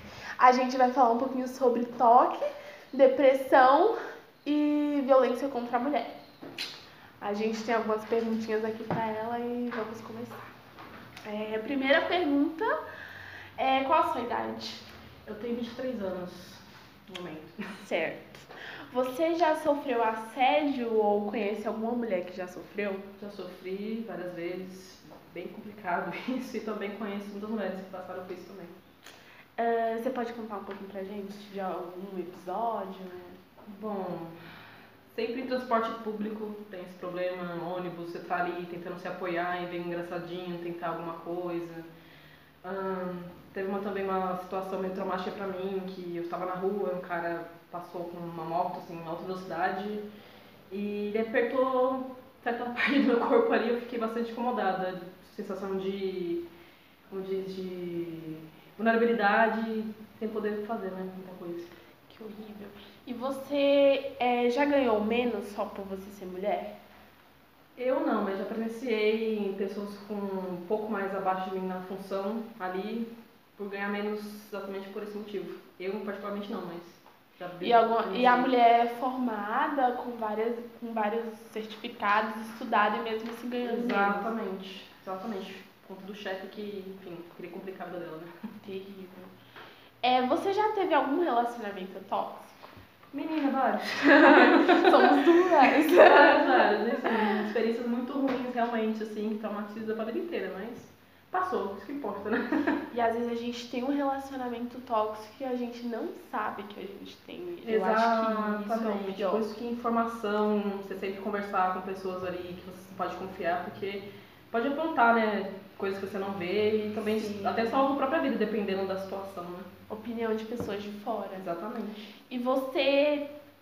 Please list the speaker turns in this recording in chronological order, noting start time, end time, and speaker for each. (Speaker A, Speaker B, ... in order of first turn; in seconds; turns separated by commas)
Speaker A: 0.4-3.9, Speaker A: 4.4-6.1, Speaker A: 7.2-10.5, Speaker A: 11.2-12.7, Speaker A: 13.6-14.8, Speaker B: 15.2-17.8, Speaker A: 17.8-23.1, Speaker B: 23.2-28.7, Speaker A: 29.6-33.4, Speaker B: 33.6-34.4, Speaker B: 35.1-41.9, Speaker B: 42.6-50.0, Speaker B: 50.7-56.4, Speaker B: 57.1-61.7, Speaker A: 62.1-66.7, Speaker B: 67.8-78.5, Speaker A: 77.6-84.3, Speaker B: 83.6-88.3, Speaker A: 88.6-89.3, Speaker A: 90.0-92.7, Speaker B: 93.1-95.2, Speaker A: 94.1-97.3, Speaker B: 95.9-102.4, Speaker A: 102.9-109.4, Speaker B: 107.6-119.7, Speaker A: 117.0-117.8, Speaker A: 119.9-121.5, Speaker B: 121.4-122.1, Speaker A: 122.3-123.3